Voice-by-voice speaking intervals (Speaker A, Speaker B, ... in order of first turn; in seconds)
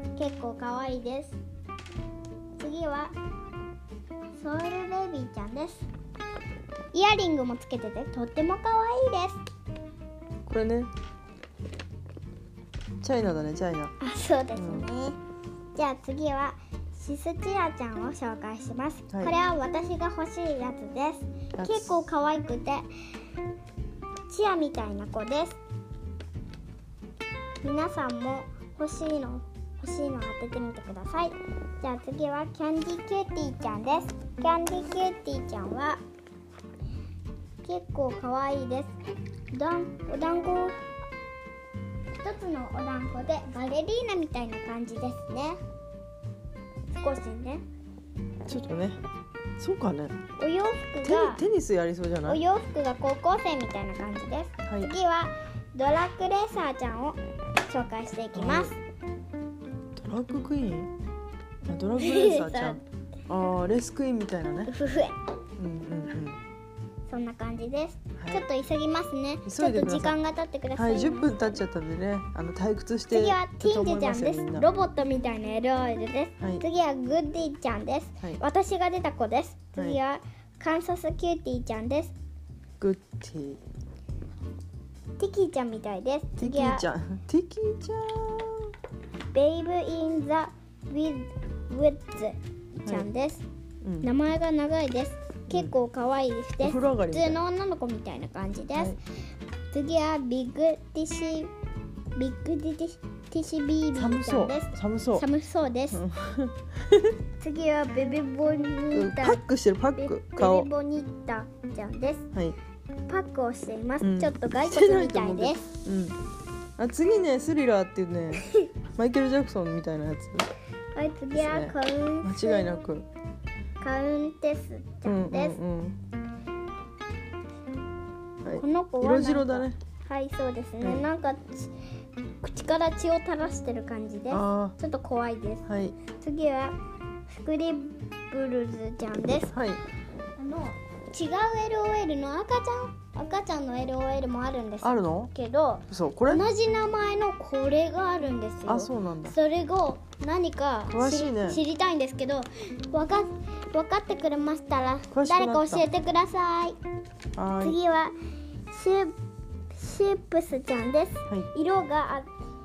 Speaker A: 0.2-1.4, 2.6-3.1, 4.3-5.9, 6.9-9.4, 14.0-15.2, 15.7-22.9, 24.3-25.6, 27.6-36.0, 37.6-38.9, 39.5-40.8, 42.2-45.6, 46.9-47.6, 50.4-51.4, 52.3-58.8, 62.0-62.8, 64.7-65.2, 67.1-71.6, 73.1-82.1, 85.2-86.8, 89.3-93.4, 94.0-99.0, 99.7-101.5, 102.1-106.0, 107.4-109.4, 110.0-112.3, 113.1-115.7, 118.3-118.7, 120.9-122.7, 123.8-125.6, 128.6-131.7, 132.4-136.7, 137.3-139.5, 140.4-156.8, 157.6-158.1, 158.7-159.2, 159.7-162.3
Speaker B: 10.5-10.9, 13.0-13.9, 14.6-14.9, 21.6-22.1, 48.5-49.0, 49.6-50.2, 51.0-52.4, 58.3-58.7, 60.0-60.9, 61.7-64.7, 65.6-66.4, 68.2-68.4, 69.5-70.2, 70.7-74.7, 79.7-80.0, 82.8-83.6, 86.4-88.8, 93.8-94.1, 96.6-97.4, 103.9-105.3, 105.9-107.2, 108.9-110.7, 114.0-116.2, 116.8-120.5, 121.3-123.1, 125.0-126.0, 128.4-129.8, 130.8-131.1, 134.3-134.8, 135.7-135.9, 139.5-139.8, 144.8-145.3, 145.9-146.5, 148.7-149.4, 150.9-151.6, 155.1-155.8, 157.3-157.8